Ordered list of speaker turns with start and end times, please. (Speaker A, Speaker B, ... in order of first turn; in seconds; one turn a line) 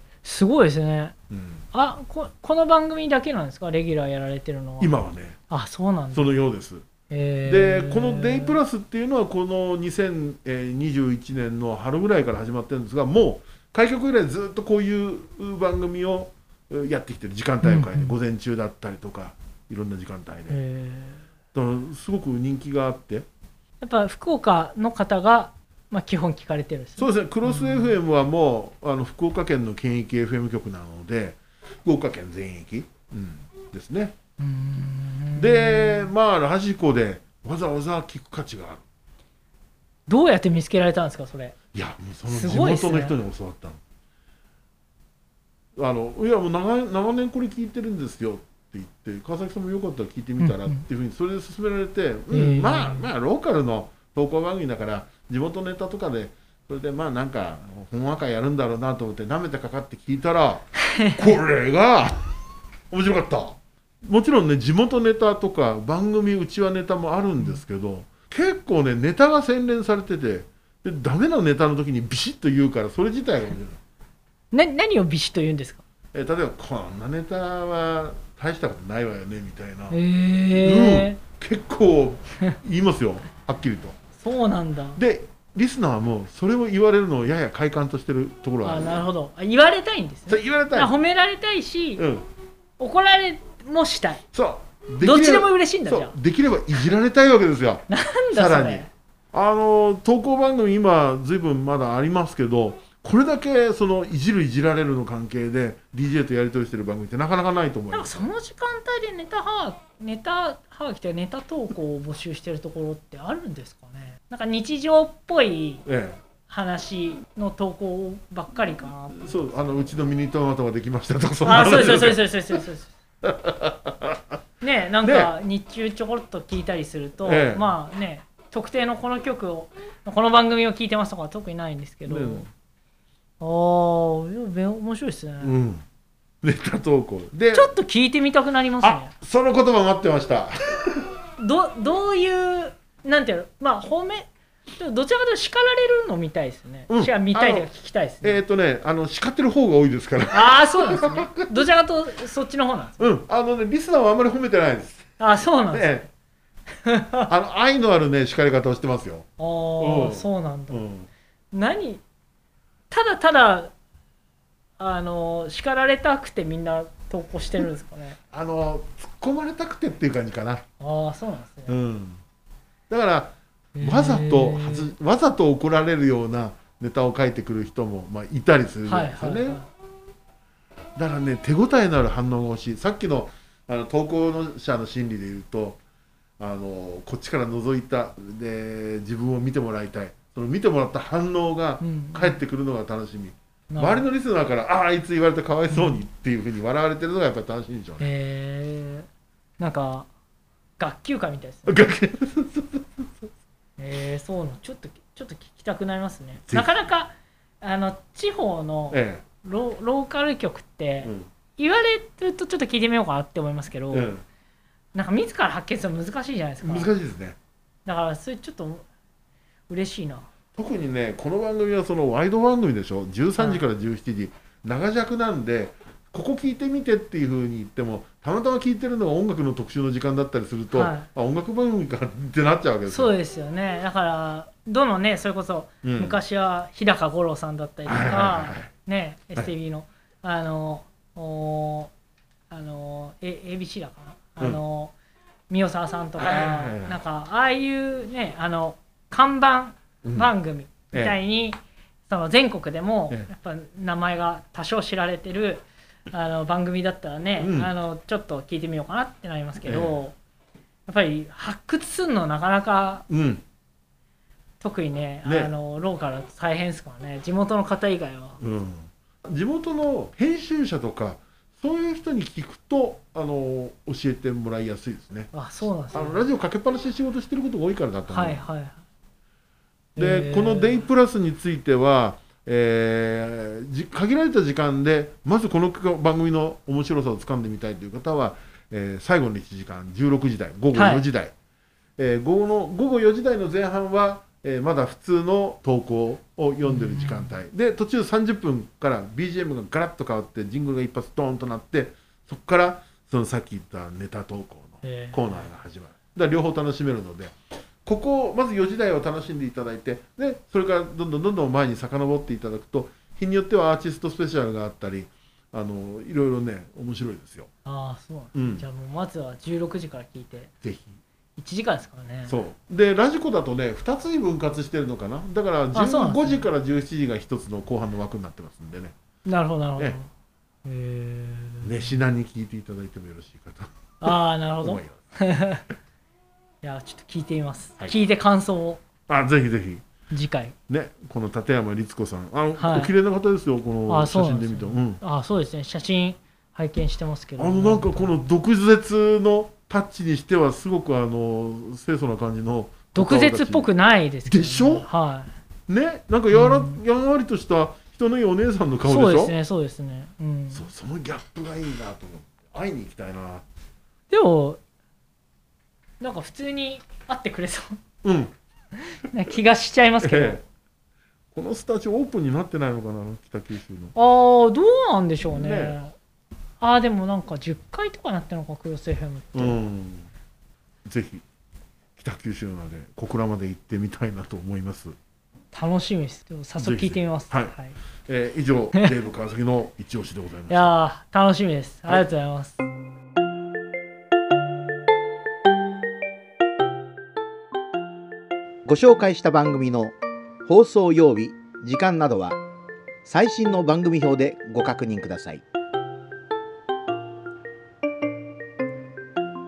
Speaker A: 0.2-1.1
Speaker B: 1.3-1.6
Speaker A: 1.7-4.9
Speaker B: 4.8-5.4
Speaker A: 5.5-6.3
Speaker B: 6.1-6.9
Speaker A: 7.1-8.6
Speaker B: 7.4-20.6
Speaker A: 17.6-18.1
Speaker A: 20.5-21.2
Speaker B: 21.5-23.2
Speaker A: 23.8-28.0
Speaker B: 27.0-34.1
Speaker A: 34.4-36.1
Speaker B: 35.4-38.8
Speaker A: 40.1-41.5
Speaker B: 41.7-43.8
Speaker A: 42.2-43.2
Speaker B: 45.8-62.2
Speaker A: 50.4-50.8
Speaker A: 52.3-53.1
Speaker A: 60.9-61.4
Speaker B: 62.9-73.8
Speaker A: 74.5-75.8
Speaker B: 76.1-80.0
Speaker A: 79.9-81.2
Speaker B: 80.5-84.0
Speaker A: 84.2-85.0
Speaker B: 85.0-89.0
Speaker A: 88.6-92.0
Speaker B: 90.3-90.9
Speaker B: 92.0-92.2
Speaker A: 92.8-94.2
Speaker B: 94.3-108.3
Speaker A: 95.0-96.2
Speaker A: 97.9-98.9
Speaker A: 107.9-115.8
Speaker B: 115.8-116.2
Speaker A: 116.5-119.4
Speaker B: 119.1-122.2
Speaker A: 121.4-122.9
Speaker B: 123.2-124.2
Speaker A: 124.6-132.4
Speaker B: 125.0-125.3
Speaker B: 127.2-127.7
Speaker B: 132.1-132.5
Speaker A: 133.4-135.6
Speaker B: 135.4-135.8
Speaker B: 136.4-137.7
Speaker A: 137.5-139.1
Speaker B: 138.8-141.1
Speaker A: 141.4-148.4
Speaker B: 146.9-147.7
Speaker B: 148.2-151.4
Speaker A: 150.3-153.1
Speaker B: 153.0-155.0
Speaker A: 155.2-156.1
Speaker B: 155.7-156.0
Speaker A: 156.8-157.3
Speaker B: 157.3-159.2
Speaker A: 159.4-160.8
Speaker B: 159.8-161.1
Speaker A: 161.5-162.0
Speaker A: 162.9-163.7
Speaker A: 164.8-168.2
Speaker B: 168.3-170.6
Speaker A: 170.8-171.8
Speaker B: 171.7-172.2
Speaker B: 172.9-179.6
Speaker A: 173.8-174.9
Speaker A: 178.8-179.7
Speaker B: 180.9-185.8
Speaker B: 186.4-198.1
Speaker A: 191.8-192.4
Speaker A: 193.7-194.1
Speaker A: 195.7-196.0
Speaker A: 198.0-199.1
Speaker A: 199.6-200.1
Speaker A: 200.8-201.8
Speaker B: 201.7-203.2
Speaker A: 203.8-214.1
Speaker B: 208.9-209.2
Speaker B: 213.9-214.2
Speaker A: 214.9-216.9
Speaker B: 216.6-217.4
Speaker A: 217.8-218.8
Speaker A: 219.7-220.3
Speaker B: 220.5-233.1
Speaker A: 223.4-223.6
Speaker A: 230.7-231.1
Speaker A: 232.9-241.9
Speaker B: 235.8-236.2
Speaker B: 237.8-238.7
Speaker A: 242.5-244.9
Speaker A: 245.5-260.1
Speaker B: 246.2-247.0
Speaker B: 250.0-250.3
Speaker B: 257.4-257.7
Speaker B: 259.6-260.0
Speaker A: 260.9-263.1
Speaker B: 263.1-263.4
Speaker A: 264.6-268.4
Speaker B: 265.2-265.5
Speaker B: 268.4-275.3
Speaker A: 275.3-276.3
Speaker B: 275.9-278.4
Speaker A: 278.1-278.8
Speaker A: 279.9-280.9
Speaker B: 280.0-291.3
Speaker A: 290.7-291.0
Speaker B: 292.0-307.3
Speaker A: 296.6-297.3
Speaker A: 304.8-305.5
Speaker B: 307.8-317.5
Speaker A: 317.6-320.5
Speaker B: 318.3-318.6
Speaker B: 320.6-320.9
Speaker A: 321.4-322.4
Speaker B: 322.3-328.9
Speaker A: 325.7-326.5
Speaker A: 329.2-330.1
Speaker A: 330.6-331.9
Speaker B: 331.6-335.0
Speaker A: 334.0-335.6
Speaker A: 336.6-338.8
Speaker B: 339.1-339.8
Speaker A: 340.1-340.5
Speaker B: 340.7-345.0
Speaker A: 342.6-342.9
Speaker A: 343.9-348.1
Speaker B: 347.4-353.7
Speaker A: 352.9-355.3
Speaker B: 354.2-354.9
Speaker B: 355.7-359.3
Speaker A: 356.3-356.8
Speaker A: 358.8-360.6
Speaker B: 360.5-363.4
Speaker A: 364.1-364.6
Speaker A: 366.0-367.8
Speaker B: 368.0-368.3
Speaker A: 368.8-370.4
Speaker B: 370.0-370.4
Speaker B: 371.3-373.9
Speaker A: 373.9-375.9
Speaker B: 375.2-375.8
Speaker A: 376.6-379.6
Speaker B: 379.3-380.1
Speaker B: 380.8-381.2
Speaker B: 382.0-384.9
Speaker A: 385.5-387.8
Speaker B: 386.6-387.5
Speaker B: 388.1-390.7
Speaker A: 390.5-392.6
Speaker C: 398.6-402.4
Speaker C: 403.0-405.4